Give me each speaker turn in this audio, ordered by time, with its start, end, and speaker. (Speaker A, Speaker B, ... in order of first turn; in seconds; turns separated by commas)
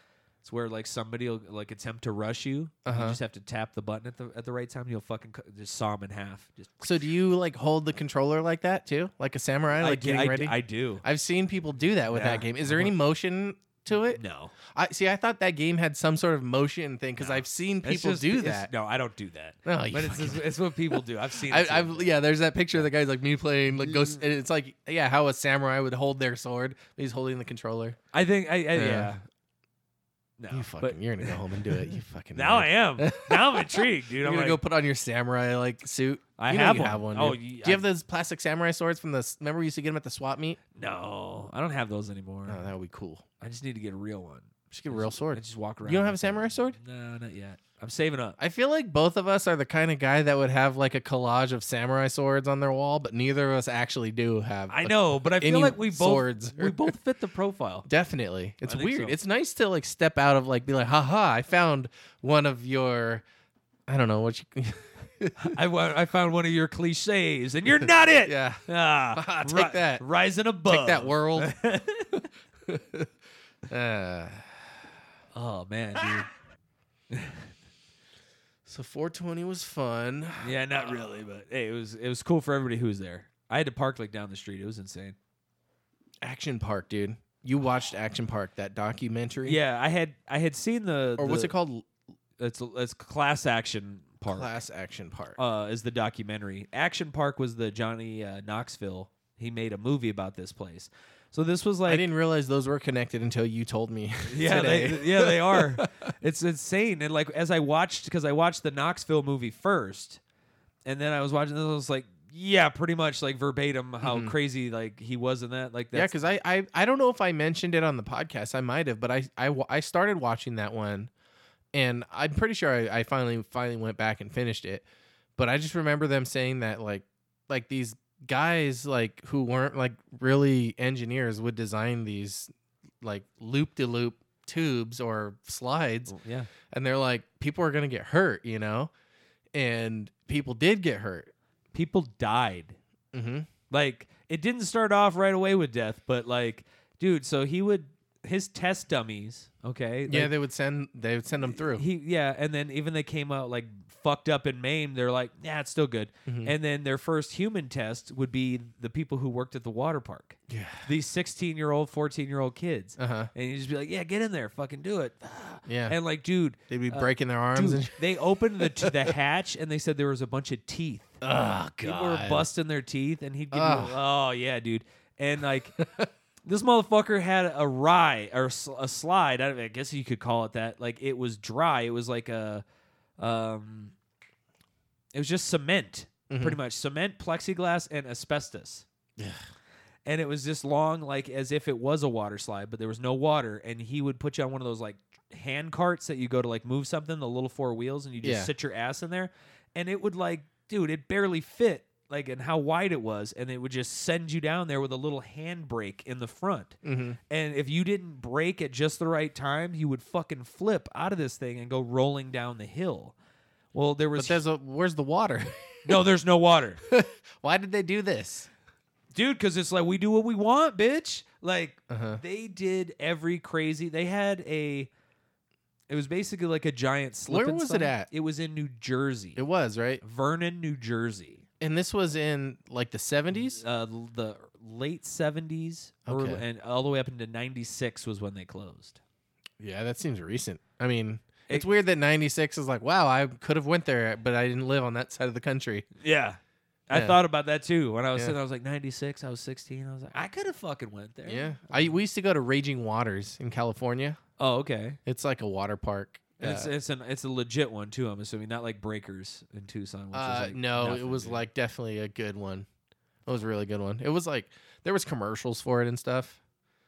Speaker A: 0.4-7.1, Speaker B: 2.8-3.2, Speaker B: 6.8-18.7, Speaker A: 9.8-11.0, Speaker A: 12.1-12.9, Speaker A: 14.0-14.5, Speaker A: 17.2-22.2, Speaker B: 19.6-28.0, Speaker A: 28.1-29.2, Speaker B: 28.7-29.2, Speaker A: 30.4-34.6, Speaker B: 30.5-40.6, Speaker A: 36.4-37.9, Speaker A: 40.7-42.6, Speaker B: 42.5-43.2, Speaker A: 43.4-48.4, Speaker B: 44.7-46.8, Speaker B: 48.4-56.9, Speaker A: 54.7-57.9, Speaker B: 57.9-63.2, Speaker A: 58.6-59.2, Speaker B: 63.9-65.5, Speaker A: 65.4-72.3, Speaker B: 68.2-70.0, Speaker B: 70.6-71.5, Speaker B: 72.7-73.1, Speaker B: 73.7-74.7, Speaker A: 75.3-76.2, Speaker B: 76.0-76.2, Speaker A: 77.1-77.5, Speaker B: 78.7-81.0, Speaker A: 80.4-85.2, Speaker B: 86.2-89.6, Speaker A: 89.4-91.5, Speaker B: 91.2-91.9, Speaker A: 92.4-94.5, Speaker B: 94.2-95.4, Speaker A: 95.4-102.0, Speaker B: 101.8-106.1, Speaker A: 104.3-110.2, Speaker A: 110.8-116.1, Speaker B: 114.0-114.3, Speaker B: 115.9-121.1, Speaker B: 121.7-124.8, Speaker B: 125.4-136.2, Speaker A: 136.1-136.5, Speaker B: 136.7-138.9, Speaker B: 139.5-141.3, Speaker A: 141.7-142.8, Speaker B: 143.1-143.5, Speaker A: 143.7-150.3, Speaker B: 150.1-151.8, Speaker A: 151.4-171.2, Speaker B: 156.2-156.5, Speaker B: 160.5-160.9, Speaker B: 163.0-163.3, Speaker B: 165.7-166.0, Speaker B: 166.7-168.0, Speaker B: 168.6-169.1, Speaker B: 171.2-172.5, Speaker A: 171.8-175.8, Speaker B: 173.5-174.0, Speaker B: 175.8-176.1, Speaker A: 176.4-182.6, Speaker A: 183.2-183.9, Speaker A: 185.1-188.8, Speaker B: 186.3-186.6, Speaker B: 189.2-189.4, Speaker A: 190.0-206.8, Speaker B: 198.2-198.5, Speaker B: 206.8-207.2, Speaker A: 207.3-213.1, Speaker A: 213.7-214.4, Speaker B: 214.2-216.0, Speaker A: 215.8-216.8, Speaker B: 216.8-218.5, Speaker A: 219.1-224.9, Speaker B: 221.9-222.2, Speaker A: 225.9-229.4, Speaker B: 227.3-228.1, Speaker B: 229.3-230.0, Speaker A: 230.0-231.4, Speaker B: 231.6-233.6, Speaker A: 233.5-239.0, Speaker B: 236.1-236.4, Speaker B: 239.6-245.8, Speaker A: 246.0-251.9, Speaker B: 246.9-247.2, Speaker B: 251.2-254.2, Speaker A: 254.4-255.0, Speaker B: 255.0-256.7, Speaker A: 256.4-261.4, Speaker B: 260.1-262.7, Speaker B: 263.2-266.4